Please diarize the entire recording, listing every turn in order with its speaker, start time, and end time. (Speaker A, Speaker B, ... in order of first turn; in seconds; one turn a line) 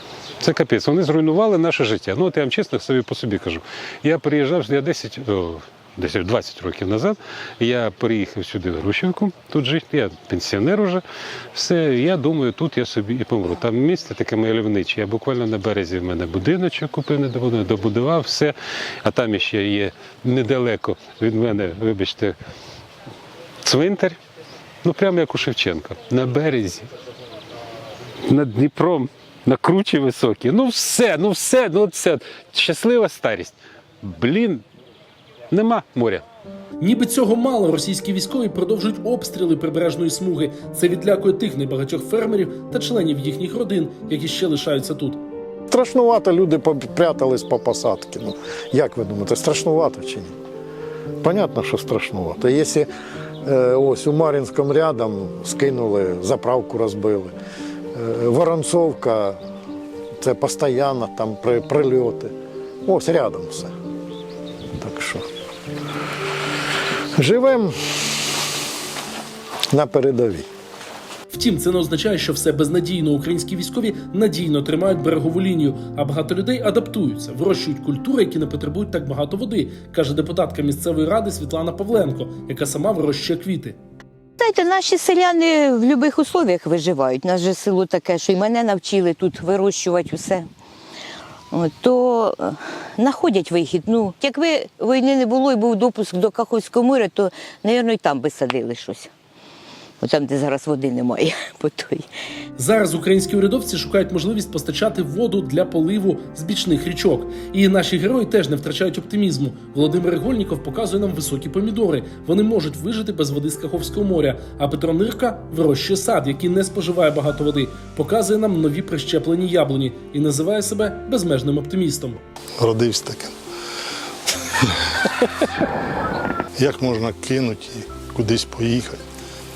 Speaker A: 0.4-11.0
Speaker A: 11.5-22.3
Speaker A: 23.6-24.2
Speaker A: 24.8-26.9
Speaker A: 28.3-34.6
Speaker A: 35.5-36.2
Speaker B: 36.8-45.2
Speaker C: 45.7-50.3
Speaker C: 51.2-52.9
Speaker C: 53.4-57.3
Speaker C: 57.9-59.4
Speaker C: 60.2-62.3
Speaker C: 62.8-63.7
Speaker C: 64.7-65.3
Speaker C: 67.2-67.7
Speaker C: 69.7-70.5
Speaker B: 71.3-83.8
Speaker D: 84.4-90.5
Speaker D: 91.5-99.1
Speaker D: 100.0-102.0
Speaker B: 102.6-122.2
Speaker E: 122.6-123.3
Speaker E: 126.5-129.0